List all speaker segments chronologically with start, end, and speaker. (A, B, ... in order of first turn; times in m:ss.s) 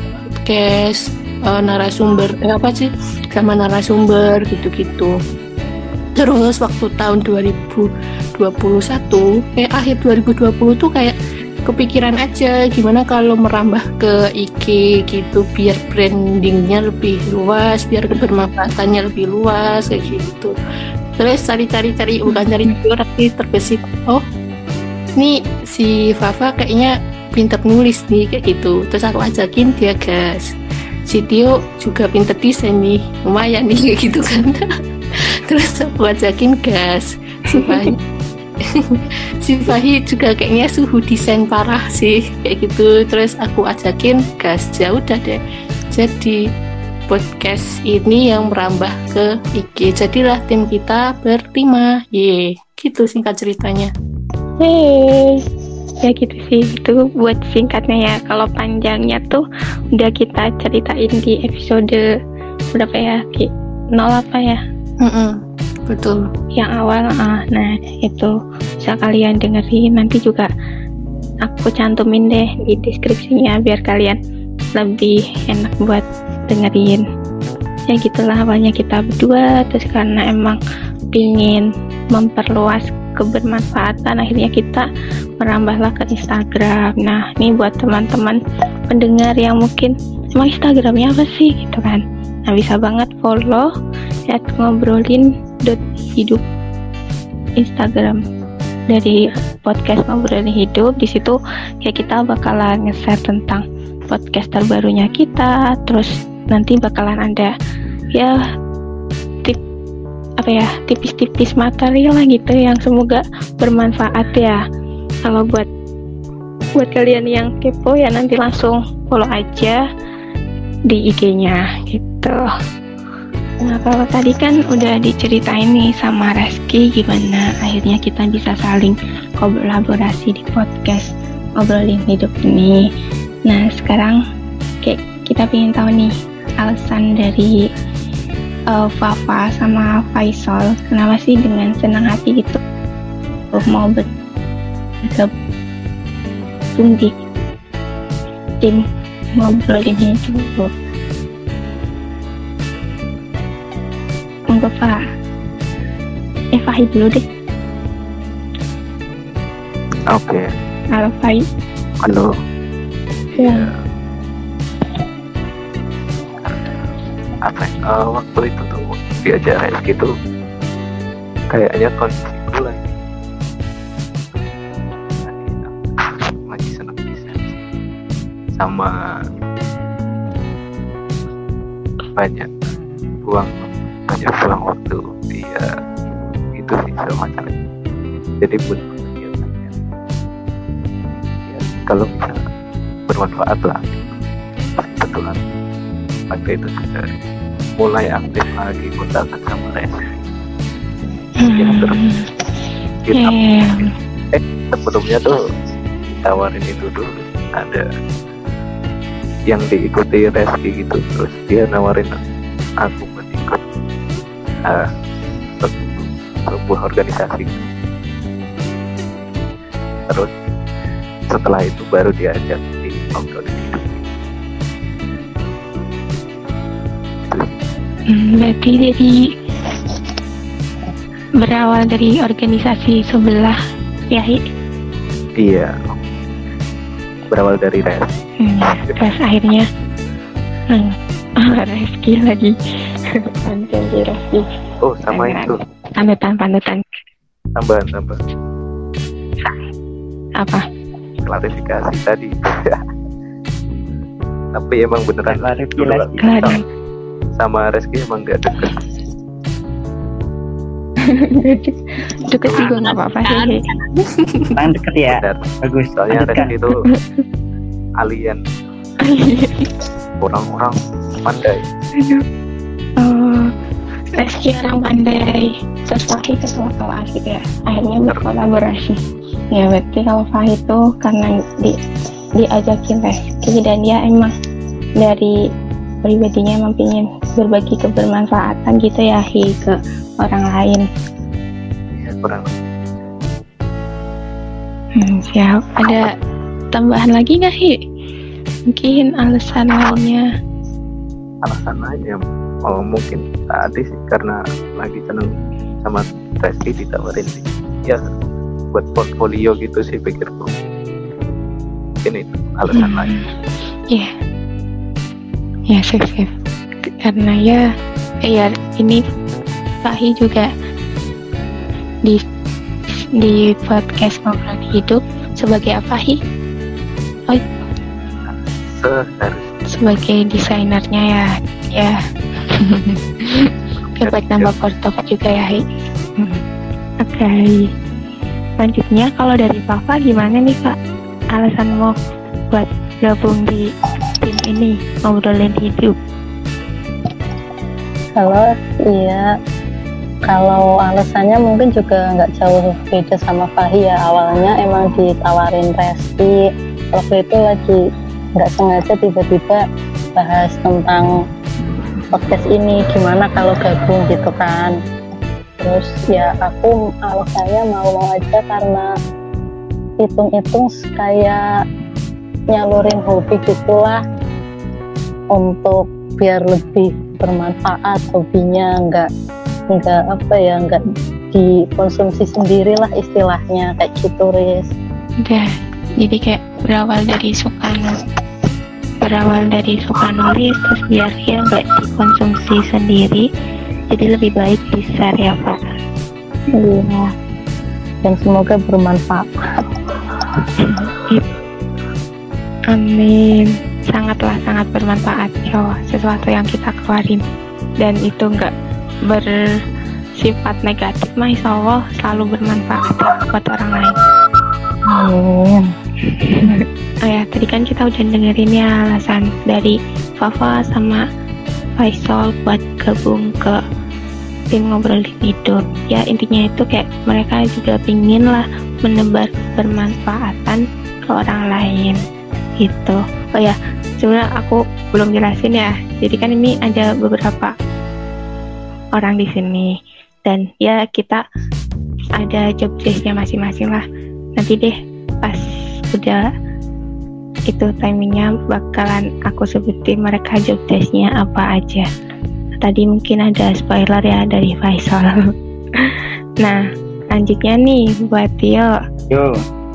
0:00.4-0:05.1 A
0:06.2-0:20.5 A
0:21.2-0:24.2 A
0:22.3-0:22.8 B
0:25.2-0:30.4 A
0:31.1-0:34.6 A
0:35.5-0:38.0 A
0:38.6-0:45.4 A
0:45.9-0:46.4 A
0:47.1-0:53.9 A
0:54.6-0:55.4 B
0:56.0-0:59.4 B
0:59.9-1:02.0 B
1:02.7-1:04.6 B
1:05.0-1:05.3 A
1:05.9-1:06.2 A
1:06.6-1:10.5 B
1:11.4-1:14.2 B
1:14.8-1:17.0 B
1:17.9-1:20.6 B
1:21.1-1:24.8 B
1:25.4-1:28.4 B
1:28.9-1:33.7 B
1:34.3-1:36.4 B
1:37.6-1:38.2 B
1:38.9-1:47.5 B
1:50.4-1:54.6 B
1:55.2-1:55.7 B
1:56.8-1:59.8 B
2:00.9-2:02.4 B
2:03.6-2:12.8 B
2:13.5-2:14.2 B
2:14.8-2:17.5 B
2:18.7-2:22.6 B
2:23.5-2:24.1 B
2:25.0-2:25.3 B
2:26.8-2:27.1 B
2:29.4-2:30.7 B
2:34.5-2:35.0 B
2:36.5-2:37.2 B
2:40.1-2:40.4 C
2:41.0-2:41.4 B
2:42.0-2:42.3 C
2:43.3-2:43.7 C
2:43.4-2:43.6 B
2:46.4-2:46.7 C
2:47.4-2:50.1 C
2:51.5-2:52.9 C
2:55.1-2:55.8 C
2:56.5-2:57.6 C
2:58.5-2:58.9 C
3:02.1-3:02.6 C
3:03.2-3:05.7 C
3:06.6-3:07.6 C
3:08.4-3:09.8 C
3:11.5-3:12.4 C
3:13.1-3:14.1 C
3:14.8-3:15.4 C
3:16.3-3:17.1 C
3:17.8-3:20.2 C
3:21.4-3:22.2 B
3:21.5-3:22.0 C
3:23.1-3:23.4 C
3:23.2-3:23.9 B
3:24.3-3:25.4 C
3:26.1-3:27.8 C
3:29.5-3:32.2 C
3:32.8-3:33.6 C
3:35.6-3:37.6 C
3:41.3-3:44.0 C
3:47.3-3:47.6 C
3:48.1-3:49.2 B
3:51.4-3:53.6 B
3:54.1-3:54.4 B
3:55.4-3:55.9 C
3:57.3-3:58.2 C
3:58.4-3:59.6 B
3:58.7-3:58.9 C
4:00.7-4:02.5 B
4:03.4-4:04.5 B
4:04.8-4:05.6 C
4:05.1-4:06.9 B
4:07.6-4:08.2 C
4:10.4-4:10.6 B
4:11.2-4:12.8 C
4:14.5-4:16.6 C
4:15.3-4:16.4 D
4:16.2-4:16.6 B
4:17.4-4:18.8 C
4:21.0-4:23.6 B
4:22.6-4:24.5 A
4:24.6-4:26.5 D
4:25.1-4:26.8 C
4:26.9-4:27.2 B
4:28.0-4:28.4 C
4:29.0-4:29.6 B
4:30.2-4:31.6 C
4:33.0-4:33.5 B
4:34.2-4:38.9 B
4:38.0-4:38.3 C
4:39.5-4:41.8 B
4:42.4-4:44.3 B
4:45.0-4:45.3 B
4:46.0-4:50.8 B
4:51.9-4:52.5 C
4:55.0-4:56.1 B
4:56.7-4:57.7 B
4:58.7-5:00.2 B
5:01.4-5:05.3 C
5:05.8-5:08.0 C
5:08.7-5:10.5 C
5:12.0-5:13.1 C
5:12.7-5:13.2 B
5:15.7-5:16.3 B
5:16.8-5:17.6 B
5:18.2-5:19.0 B
5:19.8-5:20.5 B
5:23.2-5:26.2 B
5:28.3-5:29.5 C
5:29.7-5:32.0 B
5:32.5-5:33.4 B
5:33.8-5:34.5 C
5:34.0-5:35.6 B
5:37.0-5:37.6 B
5:38.6-5:40.7 B
5:41.3-5:41.9 B
5:42.5-5:43.7 B
5:44.2-5:45.9 B
5:48.1-5:49.2 E
5:50.3-5:56.4 E
5:56.9-5:57.8 E
5:58.4-5:59.6 E
6:00.2-6:01.1 E
6:02.1-6:04.7 E
6:05.6-6:08.9 E
6:10.0-6:11.4 E
6:12.5-6:14.0 E
6:15.3-6:19.1 E
6:19.7-6:20.8 E
6:21.3-6:24.7 E
6:26.0-6:27.9 B
6:29.0-6:33.2 B
6:33.9-6:35.6 B
6:36.5-6:37.1 E
6:38.0-6:39.3 E
6:40.7-6:41.2 B
6:42.7-6:47.2 B
6:47.8-6:48.5 B
6:49.1-6:49.4 B
6:50.2-6:54.0 B
6:54.9-6:55.6 E
6:57.0-7:01.0 B
7:01.8-7:03.6 B
7:04.5-7:12.0 B
7:12.6-7:17.5 B
7:19.0-7:19.7 B
7:20.2-7:21.2 B
7:22.2-7:23.8 B
7:24.4-7:26.2 B
7:27.5-7:31.9 B
7:32.6-7:35.2 B
7:37.1-7:38.7 B